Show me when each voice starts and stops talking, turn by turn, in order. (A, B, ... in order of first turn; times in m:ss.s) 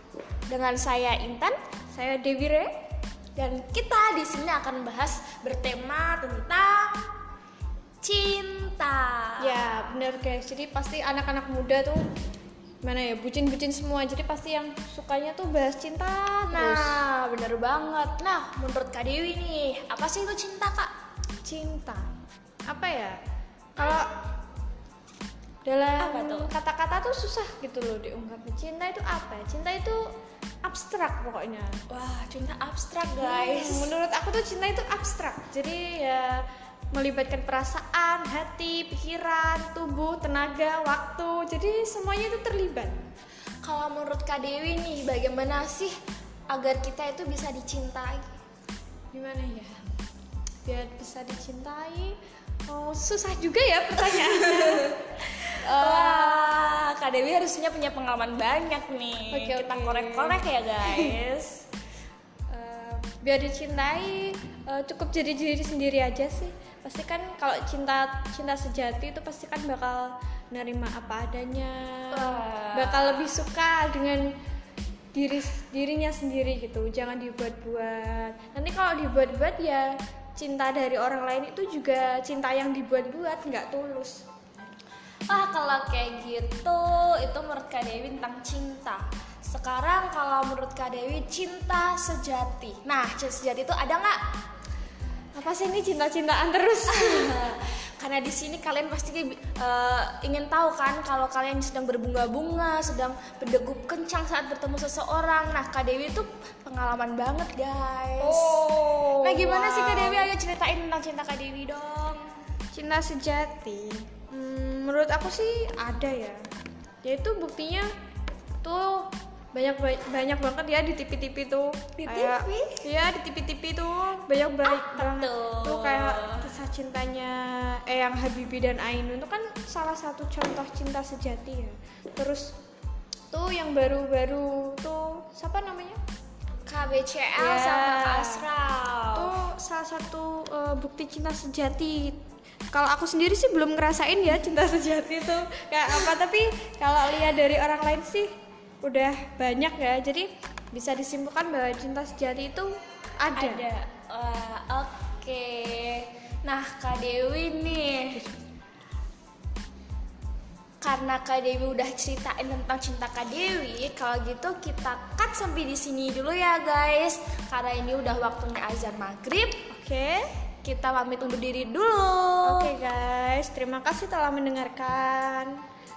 0:00.5-0:01.6 A
0:01.9-0:02.7 B
0:03.4-0:07.1 A
0:08.0-0:09.9 A
0:09.4-0:12.0 B
0:12.8-0:17.0 B
0:16.5-0:20.9 A
0:21.4-0:22.1 B
0:22.7-0:23.2 B
0:23.8-0:24.1 B
0:23.8-0:24.1 A
0:25.6-0:30.0 B
0:26.0-0:26.5 A
0:30.6-0:31.8 B
0:31.9-0:33.9 A
0:33.2-0:36.4 B
0:36.9-0:43.0 B
0:43.6-0:46.0 A
0:46.5-0:48.4 A
0:49.1-0:49.8 B
0:50.6-0:52.1 B
0:52.7-0:55.0 B
0:54.1-1:01.6 A
0:55.6-0:56.5 B
0:59.3-1:01.1 B
1:02.5-1:14.3 B
1:12.1-1:13.3 A
1:15.1-1:24.2 B
1:25.3-1:34.2 A
1:35.3-1:37.3 B
1:36.9-1:52.2 A
1:48.2-1:50.3 B
1:52.7-1:56.4 B
1:57.0-1:57.9 B
1:58.6-2:12.5 B
2:02.0-2:02.8 A
2:04.6-2:06.5 A
2:13.3-2:16.0 B
2:16.6-2:19.3 A
2:17.4-2:18.4 B
2:19.1-2:22.2 B
2:22.7-2:28.3 B
2:28.8-2:33.7 B
2:33.4-2:38.2 A
2:40.8-2:49.6 A
2:49.7-2:50.2 B
2:50.6-2:52.7 A
2:52.4-2:55.6 B